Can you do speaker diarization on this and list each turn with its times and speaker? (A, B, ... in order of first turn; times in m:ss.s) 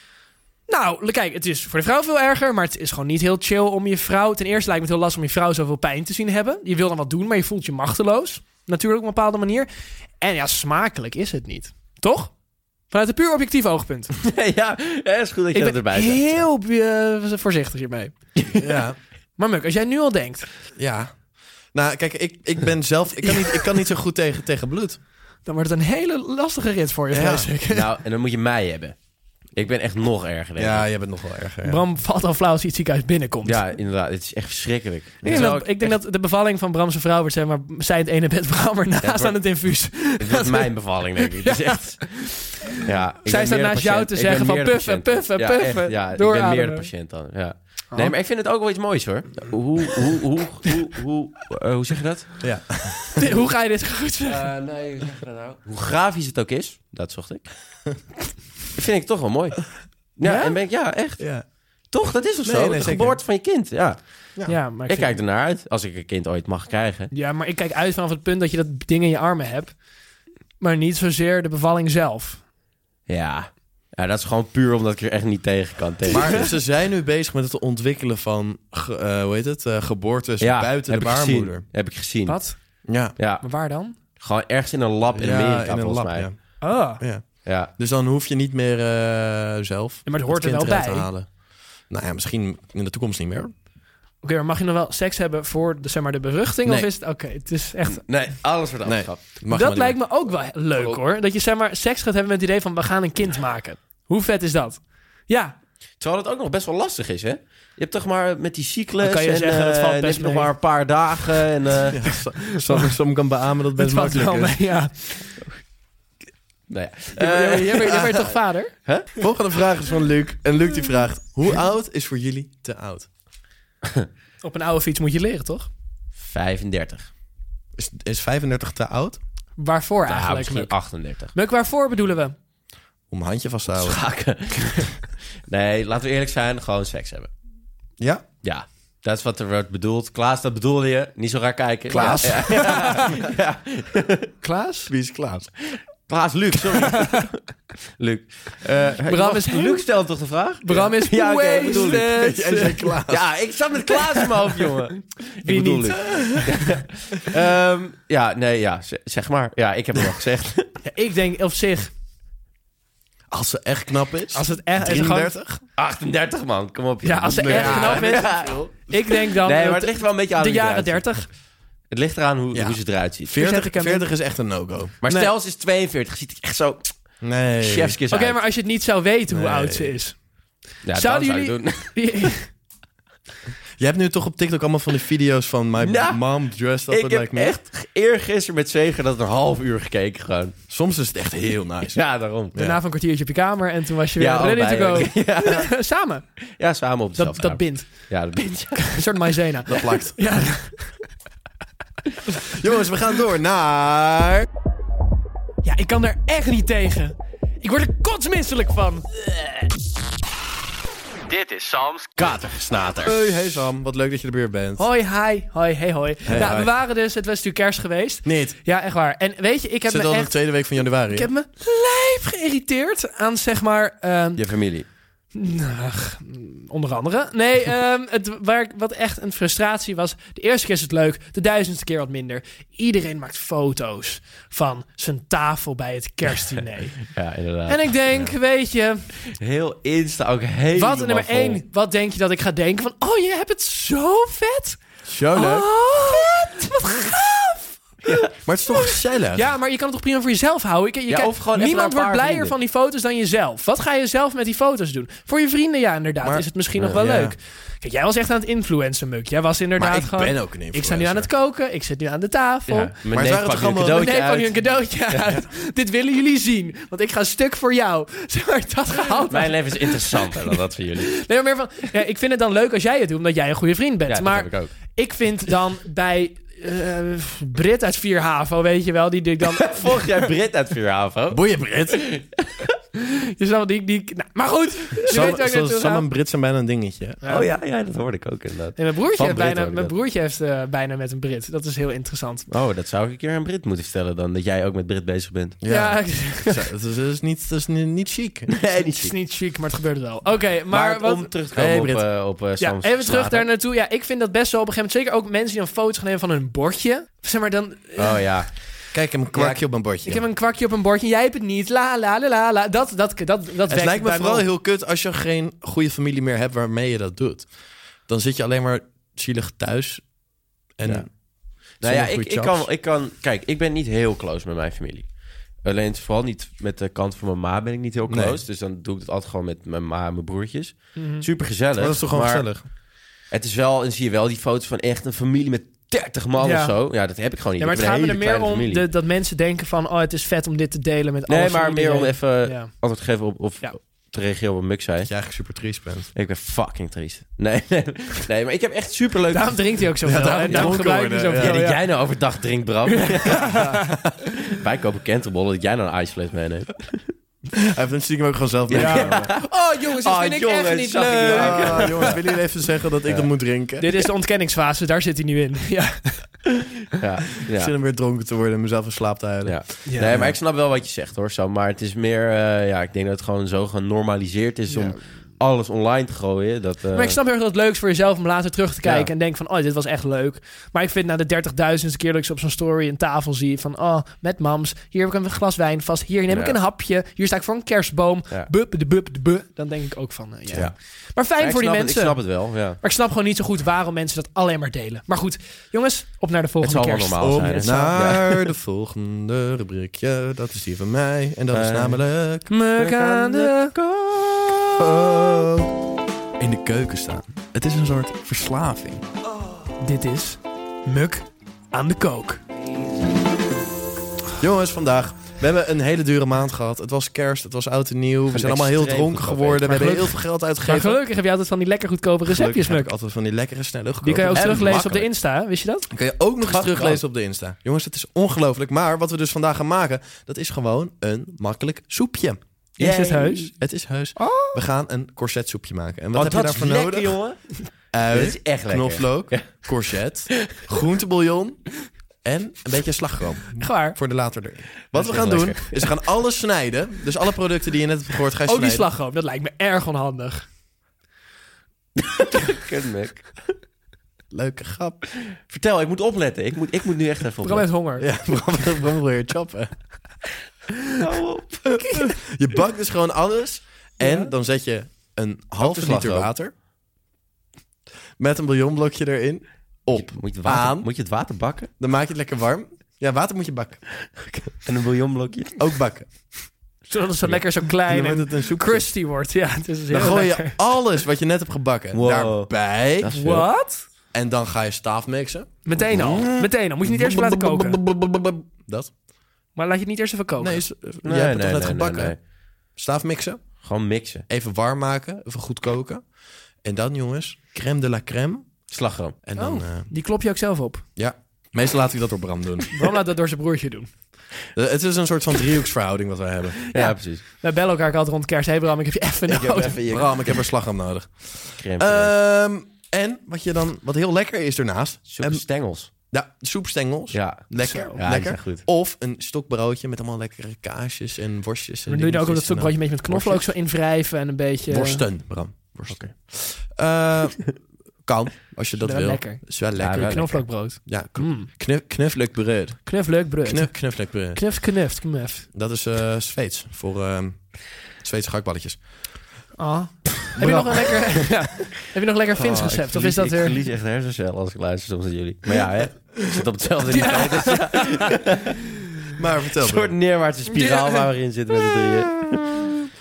0:00.7-0:09.7 A
0:10.2-0:12.3 A
0:12.9-0:14.1 A
0:14.2-0:16.4 B
0:15.5-0:18.2 A
0:18.6-0:19.0 C
0:19.4-0:20.5 A
0:20.8-0:21.2 C
0:21.7-0:25.0 C
0:25.4-0:27.9 A
0:27.1-0:27.5 C
0:27.7-0:29.0 B
0:29.5-0:30.9 B
0:30.6-0:31.8 C
0:31.6-0:33.6 A
0:33.4-0:36.0 B
0:35.2-0:35.6 C
0:35.2-0:42.7 A
0:39.0-0:52.4 B
0:43.3-0:46.9 A
0:52.4-0:53.3 C
0:53.2-0:54.5 A
0:54.3-0:57.5 B
0:58.7-1:07.1 B
1:00.2-1:00.6 A
1:01.2-1:01.5 C
1:02.4-1:03.2 C
1:04.5-1:05.2 A
1:07.1-1:09.8 A
1:10.6-1:12.4 A
1:13.1-1:16.5 B
1:16.1-1:21.6 C
1:20.4-1:22.6 B
1:22.3-1:22.6 A
1:22.9-1:23.2 C
1:23.2-1:23.5 B
1:23.2-1:24.0 A
1:24.2-1:26.3 B
1:25.2-1:33.5 C
1:26.6-1:27.0 A
1:27.4-1:27.7 B
1:30.1-1:31.1 A
1:34.2-1:38.0 A
1:37.9-1:39.4 B
1:38.8-1:40.0 C
1:39.5-1:45.6 A
1:40.7-1:41.0 B
1:46.0-1:52.1 B
1:49.0-1:50.5 A
1:51.9-1:54.6 C
1:53.8-1:55.4 A
1:56.7-1:58.3 B
1:57.2-1:58.7 A
1:58.9-1:59.1 B
1:59.2-2:03.1 C
2:04.4-2:05.7 A
2:06.2-2:07.1 B
2:07.8-2:09.2 C
2:09.6-2:10.8 A
2:10.1-2:11.3 B
2:11.3-2:12.4 A
2:13.1-2:14.0 C
2:13.7-2:17.3 B
2:18.0-2:18.2 C
2:18.4-2:24.3 B
2:21.9-2:23.1 A
2:22.0-2:22.6 C
2:24.4-2:24.9 A
2:24.9-2:25.5 C
2:25.7-2:27.4 B
2:28.0-2:32.2 B
2:29.1-2:29.8 A
2:30.6-2:32.9 A
2:32.1-2:33.2 C
2:33.1-2:40.7 B
2:35.4-2:36.4 A
2:36.1-2:36.4 C
2:40.8-2:41.9 A
2:43.3-2:45.6 C
2:44.3-2:45.3 A
2:45.8-2:48.6 B
2:47.0-2:51.3 A
2:47.3-2:48.9 C
2:49.2-2:51.2 B
2:51.9-2:53.4 B
2:52.5-2:55.0 C
2:53.4-2:54.1 A
2:55.0-2:58.4 B
2:55.1-2:55.3 A
2:57.2-2:58.0 C
2:58.1-3:00.2 A
2:59.3-3:00.0 C
3:00.8-3:02.0 B
3:01.0-3:02.5 A
3:03.8-3:07.6 C
3:05.8-3:06.2 B
3:06.9-3:10.6 B
3:10.7-3:12.8 C
3:12.0-3:12.6 B
3:12.6-3:16.3 A
3:14.2-3:15.8 B
3:16.6-3:19.0 B
3:17.2-3:18.1 A
3:18.8-3:21.0 A
3:19.7-3:20.2 C
3:22.5-3:24.5 C
3:25.6-3:29.1 A
3:31.3-3:33.2 B
3:33.0-3:34.8 C
3:34.8-3:40.4 A
3:36.3-3:36.7 C
3:38.2-3:38.6 C
3:39.9-3:41.3 C
3:41.1-3:44.4 A
3:44.4-3:44.9 B
3:45.3-3:57.1 A
3:57.0-3:57.9 B
3:57.7-3:59.1 A
3:59.3-4:01.6 B
4:00.7-4:04.8 A
4:05.0-4:05.7 C
4:05.3-4:22.9 A
4:08.4-4:09.5 C
4:11.1-4:12.6 B
4:16.2-4:17.4 C
4:19.8-4:21.3 C
4:22.7-4:25.4 B
4:23.1-4:24.1 C
4:23.8-4:30.6 A
4:29.3-4:31.3 B
4:31.1-4:40.1 A
4:34.1-4:34.8 B
4:39.5-4:42.7 B
4:41.3-4:42.0 C
4:43.0-4:46.0 A
4:45.0-4:45.4 B
4:45.1-4:47.2 C
4:47.2-4:47.5 A
4:47.3-4:50.0 B
4:48.8-4:52.5 A
4:52.5-4:55.6 B
4:55.6-4:58.5 C
4:55.7-4:56.5 A
4:58.5-4:59.2 B
4:59.0-5:01.3 A
5:00.7-5:03.5 B
5:01.5-5:02.0 C
5:02.6-5:08.3 A
5:08.0-5:08.6 B
5:08.9-5:10.2 C
5:09.3-5:09.6 B
5:10.0-5:14.5 A
5:13.7-5:17.5 C
5:18.1-5:20.1 C
5:20.8-5:21.1 C
5:21.8-5:25.1 B
5:21.8-5:22.7 C
5:25.6-5:32.6 B
5:28.1-5:28.4 C
5:31.0-5:31.3 A
5:31.8-5:32.6 C
5:33.3-5:38.8 B
5:36.4-5:36.8 A
5:37.6-5:42.7 A
5:41.3-5:45.1 B
5:45.0-5:46.1 C
5:46.2-5:50.8 B
5:49.3-5:51.8 A
5:50.0-5:51.6 C
5:51.4-5:57.1 B
5:52.9-5:53.9 A
5:53.6-5:54.0 C
5:57.6-5:59.3 C
5:58.7-6:02.2 B
5:58.7-6:02.2 A
6:01.3-6:03.9 C
6:03.8-6:06.5 A
6:07.0-6:07.7 B
6:07.6-6:10.4 C
6:09.4-6:17.2 B
6:09.9-6:10.2 A
6:14.7-6:15.0 A
6:16.9-6:38.0 A
6:18.8-6:19.1 B
6:26.3-6:26.6 B
6:31.4-6:32.8 B
6:36.6-6:38.5 B
6:37.2-6:42.5 C
6:41.5-6:42.0 B
6:42.5-6:43.7 A
6:42.8-6:44.8 B
6:44.8-6:45.7 C
6:46.4-6:49.0 C
6:49.8-6:52.4 A
6:54.4-7:01.0 C
6:58.3-6:59.7 B
6:59.6-7:02.9 A
7:02.3-7:04.8 C
7:04.0-7:05.9 A
7:04.3-7:05.1 B
7:05.9-7:12.4 C
7:06.4-7:07.0 B
7:12.8-7:13.5 A
7:12.8-7:13.5 B
7:13.6-7:17.2 C
7:14.2-7:14.6 A
7:16.1-7:17.5 B
7:17.9-7:21.7 C
7:18.1-7:20.7 B
7:22.2-7:28.9 C
7:23.6-7:24.0 A
7:24.9-7:25.8 B
7:28.5-7:30.5 A
7:32.0-7:33.4 B
7:34.3-7:35.0 C
7:35.2-7:37.7 B
7:37.4-7:38.1 A
7:38.0-7:39.7 C
7:41.0-7:41.8 B
7:41.7-7:46.5 C
7:41.8-7:42.1 A
7:44.0-7:44.3 A
7:45.6-7:46.3 B
7:48.2-7:50.9 C
7:49.9-7:51.7 B
7:51.8-7:53.8 C
7:54.2-7:55.7 B
7:55.6-7:56.3 C
7:56.9-8:00.6 A
7:57.9-7:58.9 C
7:59.9-8:03.4 C
8:01.9-8:03.4 B
8:03.1-8:03.8 A
8:04.1-8:08.9 C
8:05.7-8:07.8 A
8:05.9-8:06.3 B
8:09.6-8:10.6 A
8:10.4-8:12.2 C
8:11.0-8:12.2 B
8:12.8-8:13.6 C
8:13.6-8:14.2 B
8:14.3-8:16.0 C
8:16.6-8:18.6 C
8:18.7-8:19.2 B
8:19.2-8:19.9 C
8:19.4-8:20.8 A
8:21.0-8:22.8 C
8:22.7-8:23.9 A
8:24.6-8:26.6 C
8:26.7-8:27.2 B
8:26.7-8:29.8 A
8:29.3-8:30.5 B
8:29.9-8:35.4 C
8:31.6-8:32.2 B
8:35.1-8:35.9 B
8:36.1-8:43.5 C
8:37.1-8:38.6 B
8:37.6-8:38.0 A
8:41.9-8:45.0 A
8:44.7-8:54.4 C
8:45.9-8:46.1 B
8:48.8-8:51.5 A
8:49.8-8:50.5 B
8:52.9-8:55.5 A
8:55.5-8:59.0 C
8:59.6-9:03.6 A
9:00.4-9:01.3 C
9:02.4-9:08.6 B
9:06.9-9:08.1 A
9:09.2-9:09.9 C
9:09.6-9:12.7 B
9:10.5-9:11.1 A